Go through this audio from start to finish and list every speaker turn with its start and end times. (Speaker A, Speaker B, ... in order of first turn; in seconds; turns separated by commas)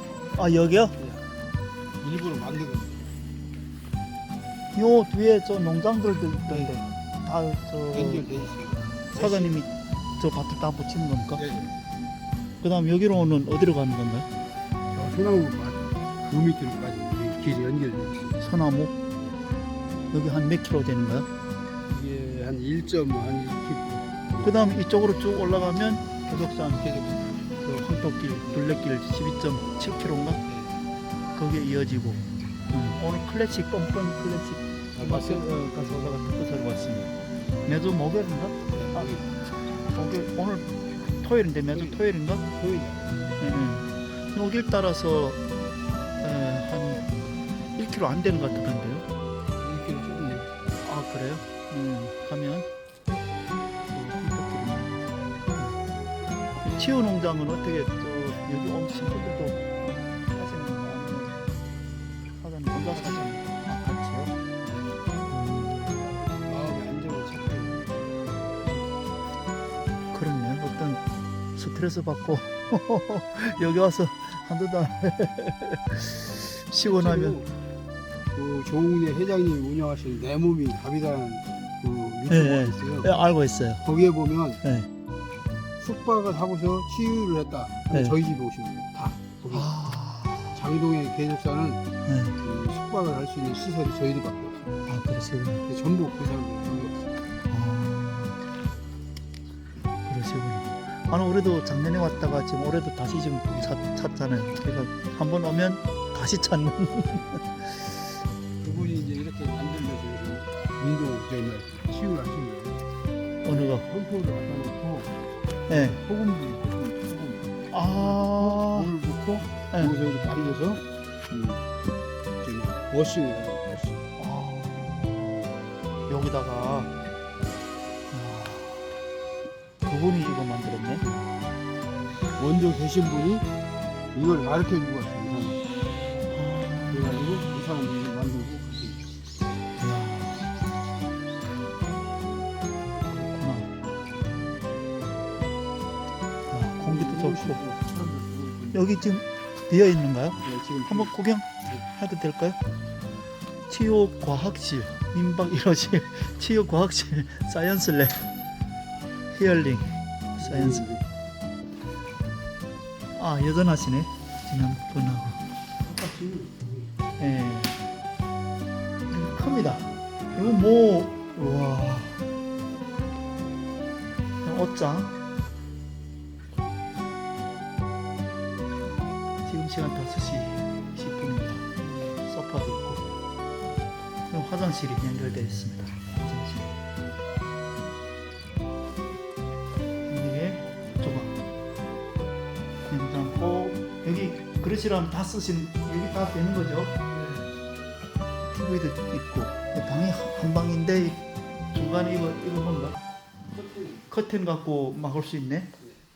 Speaker A: 0.4-1.0, Speaker B: 1.0-1.3, Speaker B: 2.0-3.1, Speaker A: 4.7-8.3, Speaker B: 6.5-6.8, Speaker B: 7.9-9.6, Speaker A: 9.1-11.4, Speaker B: 11.3-11.8, Speaker A: 12.6-14.3, Speaker B: 14.9-18.4, Speaker A: 18.4-18.9, Speaker A: 20.1-21.3, Speaker B: 21.9-24.7, Speaker A: 24.4-26.9, Speaker B: 26.8-27.5, Speaker A: 27.6-30.4, Speaker B: 30.4-30.8, Speaker A: 31.4-37.1, Speaker B: 34.9-36.1, Speaker A: 37.6-39.1, Speaker B: 38.7-39.3, Speaker A: 39.9-42.5, Speaker B: 41.7-43.2, Speaker A: 43.4-45.4, Speaker A: 46.2-47.1, Speaker A: 47.8-49.1, Speaker B: 49.6-50.5, Speaker A: 50.8-52.7, Speaker A: 53.9-55.8, Speaker A: 56.6-59.6, Speaker A: 60.3-61.4, Speaker A: 62.4-64.4, Speaker B: 62.9-63.3, Speaker B: 64.6-65.0, Speaker A: 65.3-66.1, Speaker B: 66.4-68.0, Speaker B: 68.6-68.9, Speaker A: 70.1-77.4, Speaker B: 76.8-77.5, Speaker B: 78.3-83.1, Speaker A: 82.3-83.8, Speaker B: 83.8-84.6, Speaker A: 84.6-84.9, Speaker B: 85.8-89.7, Speaker A: 87.9-88.2, Speaker A: 89.5-90.6, Speaker B: 90.5-91.8, Speaker A: 92.0-92.4, Speaker B: 92.4-94.7, Speaker A: 94.9-95.7, Speaker B: 95.7-97.0, Speaker A: 97.5-98.4, Speaker A: 100.1-108.2, Speaker B: 103.5-103.8, Speaker B: 108.6-112.8, Speaker A: 113.4-113.8, Speaker B: 113.5-115.1, Speaker B: 115.7-121.7, Speaker A: 115.7-116.0, Speaker A: 117.7-118.9, Speaker B: 122.4-124.0, Speaker A: 124.2-125.5, Speaker A: 126.1-126.9, Speaker A: 128.1-128.9, Speaker A: 129.8-131.1, Speaker B: 131.0-131.2, Speaker B: 132.4-133.5, Speaker B: 134.1-135.6, Speaker A: 136.3-137.2, Speaker B: 136.9-139.1, Speaker A: 139.8-140.5, Speaker A: 143.1-143.7, Speaker A: 146.5-147.6, Speaker B: 146.8-149.0, Speaker A: 148.7-152.6, Speaker B: 150.4-151.1, Speaker A: 153.7-158.2, Speaker A: 159.3-160.9, Speaker B: 160.4-161.1, Speaker A: 163.2-165.4, Speaker B: 165.8-166.9, Speaker A: 167.2-167.8, Speaker A: 169.1-172.2, Speaker B: 170.3-170.6, Speaker A: 174.4-175.2, Speaker A: 179.4-181.7, Speaker A: 182.2-183.1, Speaker A: 184.3-186.7, Speaker A: 190.1-191.4, Speaker A: 192.9-197.0, Speaker B: 197.1-197.4, Speaker A: 198.4-203.0, Speaker B: 203.5-204.1, Speaker A: 204.1-205.7